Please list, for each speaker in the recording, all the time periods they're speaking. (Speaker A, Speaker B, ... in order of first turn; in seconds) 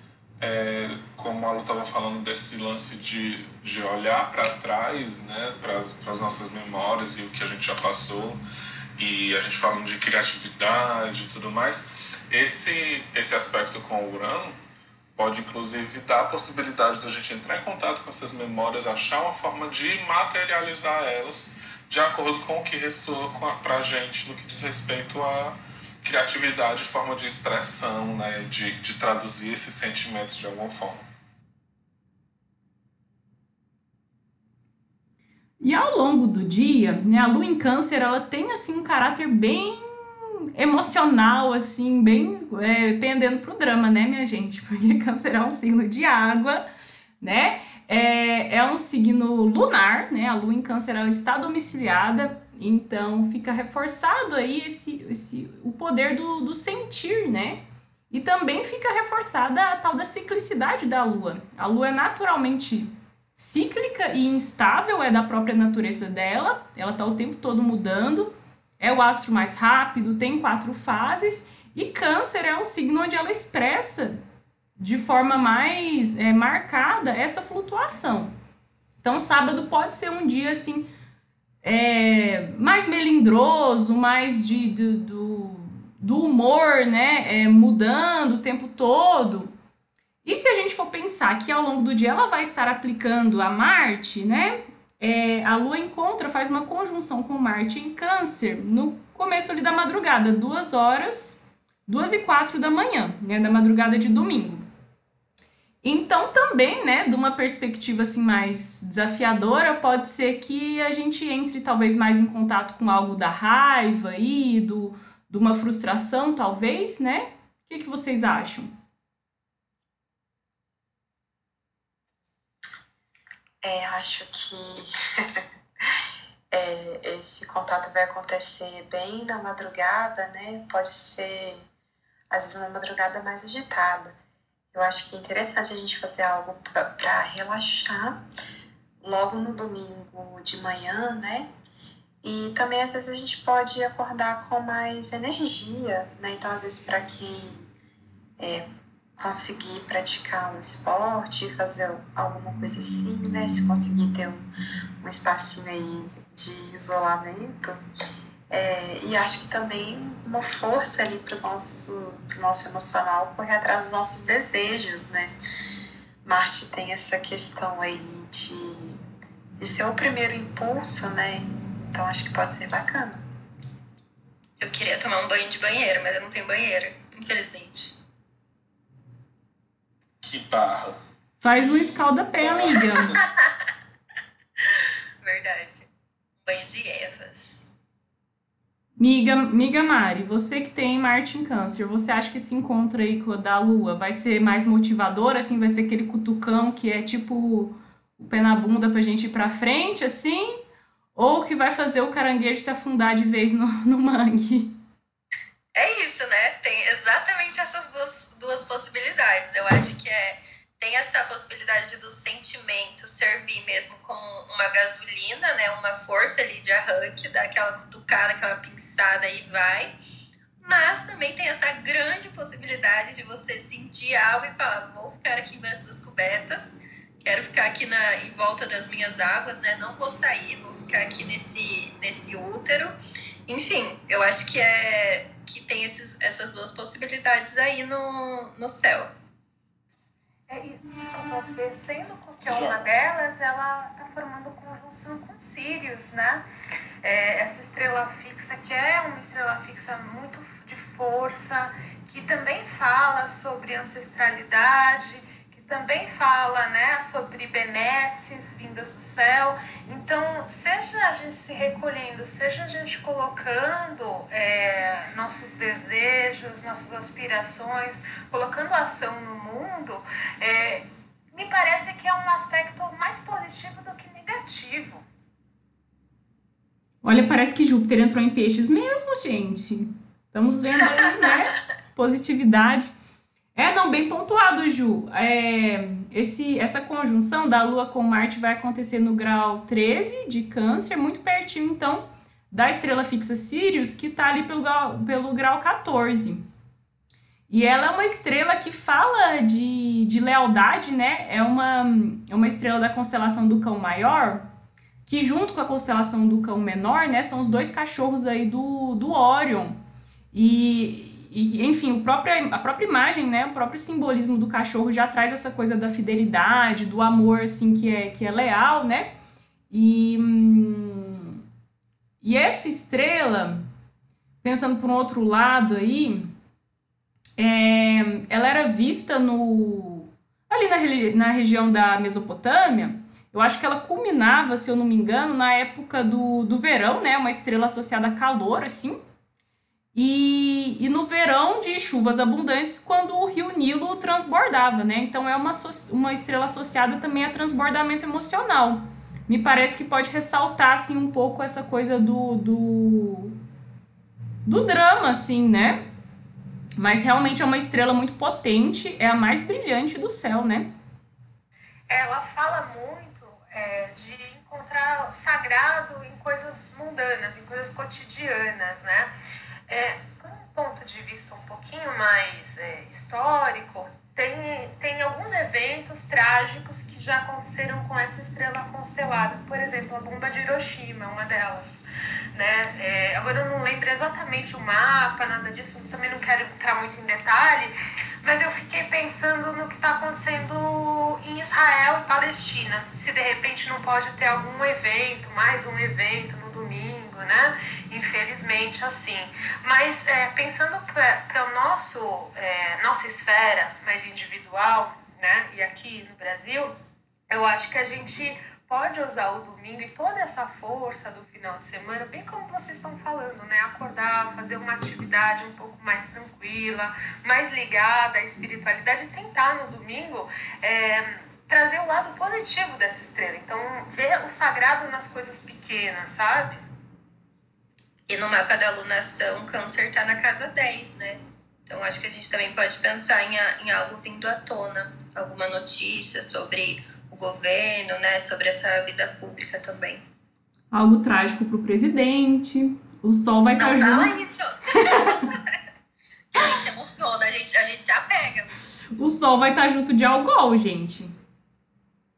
Speaker A: 0.4-8.4, 9.0-14.5, 15.2-31.0, 180.2-183.2, 242.4-242.8
Speaker B: 35.6-46.6, 47.2-74.2, 74.8-78.3, 79.0-80.9, 81.6-89.5, 90.2-104.7, 105.8-118.7, 181.4-183.1, 189.0-200.6, 201.2-204.8, 277.0-282.9, 283.5-296.4, 297.5-304.4, 305.1-309.8, 310.3-319.1, 319.7-321.4, 322.2-323.6, 324.4-326.3, 327.4-339.0, 339.9-353.3, 354.4-355.8, 356.8-360.7, 440.7-444.1, 444.7-445.3, 449.0-451.1
Speaker C: 123.6-125.4, 126.5-131.6, 132.3-134.2, 134.7-138.2, 139.0-141.5, 142.2-147.7, 148.4-148.6, 149.2-154.5, 155.0-157.8, 158.5-165.3, 166.2-169.0, 169.6-173.2
Speaker D: 174.6-177.9, 185.2-185.9, 186.4-187.7, 205.8-219.9, 220.6-239.1, 428.1-440.0, 443.6-445.4, 446.3-448.6
Speaker E: 240.5-246.4, 247.0-275.0, 361.9-369.1, 369.7-381.8, 382.3-406.7, 407.3-426.6